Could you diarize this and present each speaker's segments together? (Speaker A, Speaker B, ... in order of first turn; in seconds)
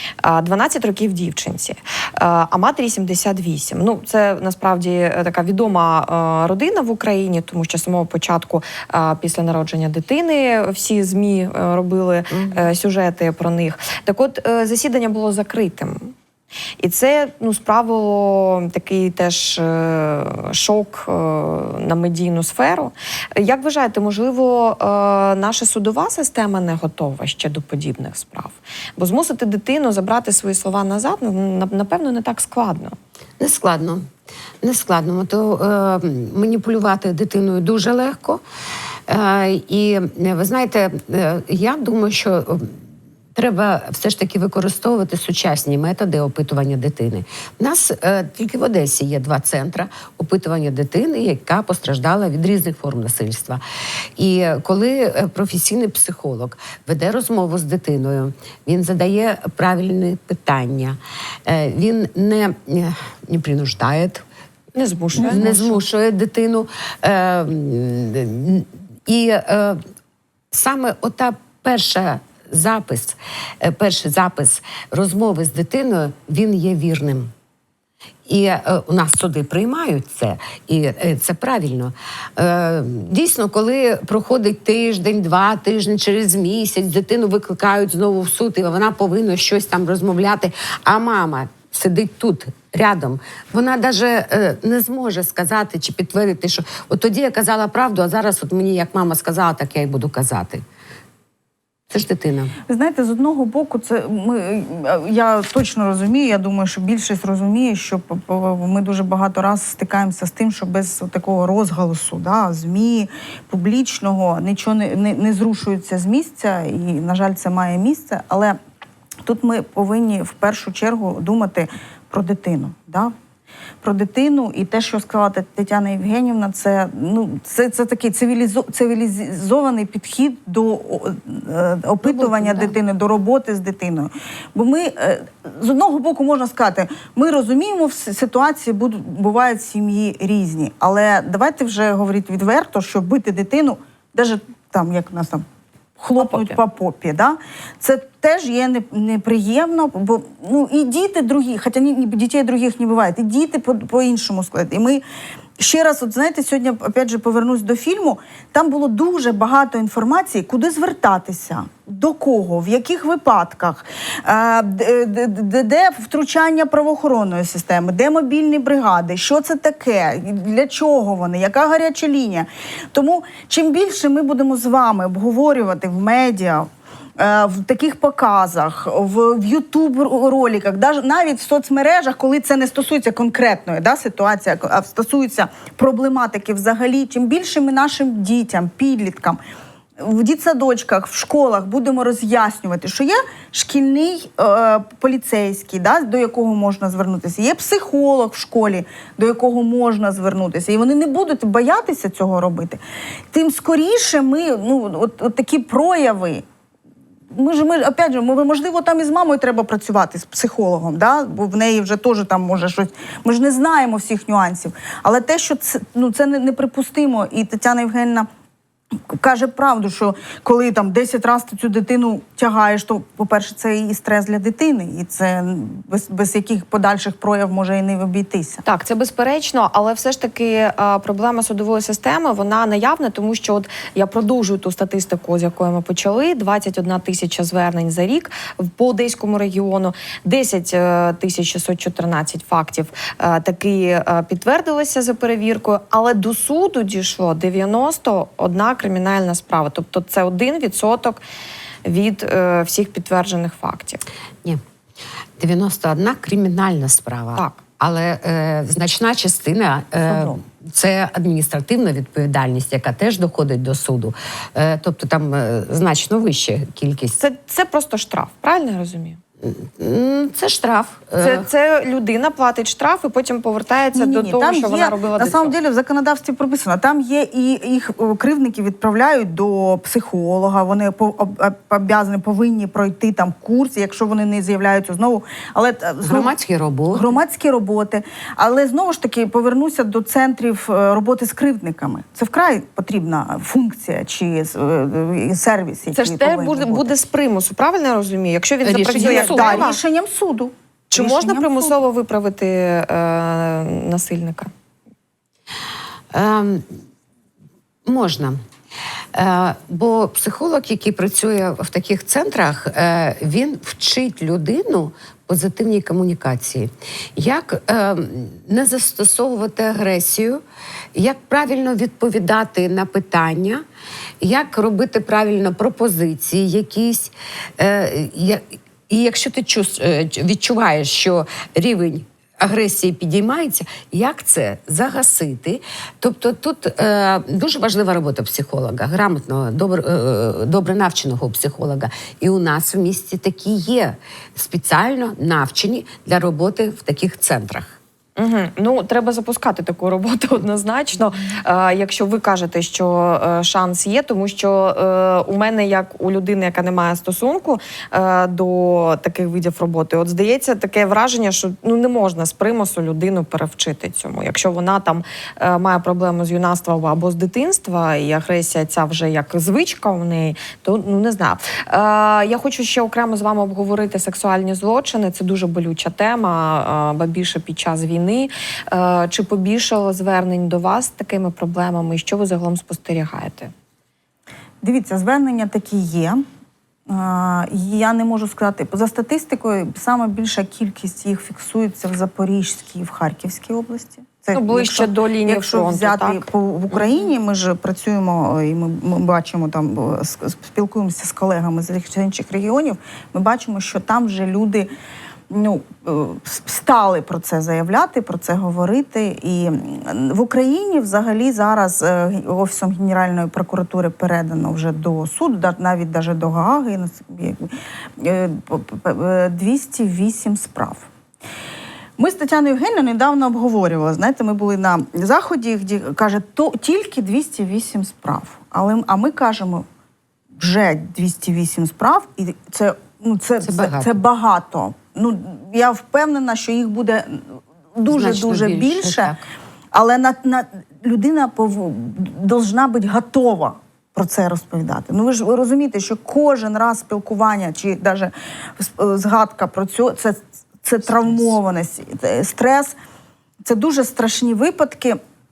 Speaker A: 0.2-16.1, 16.8-33.0, 64.7-65.8, 132.0-132.7, 228.7-251.2, 251.8-254.0, 267.2-269.2, 271.2-275.5, 295.9-299.8, 300.9-304.5, 348.2-383.5, 394.3-396.3
Speaker B: 33.4-34.0, 34.6-38.4, 39.1-42.8, 43.3-53.6, 54.2-64.2, 65.2-69.8, 70.5-77.3, 78.3-100.6, 101.9-102.5, 255.4-267.2, 269.4-271.5, 286.0-287.2, 298.6-299.7, 306.1-306.8, 307.9-308.4, 309.1-320.4, 320.9-323.6, 324.2-347.8, 433.4-434.0, 437.9-439.3
Speaker C: 102.7-118.6, 119.2-123.1, 123.8-145.4, 146.0-155.0, 155.6-189.4, 190.0-202.8, 203.3-206.4, 207.3-218.3, 219.1-228.6, 260.1-260.4, 273.9-286.3, 286.9-296.9, 298.9-301.8, 384.6-386.2, 386.9-404.7, 405.3-420.9, 422.0-429.6, 430.4-439.1, 439.7-452.8, 453.4-455.0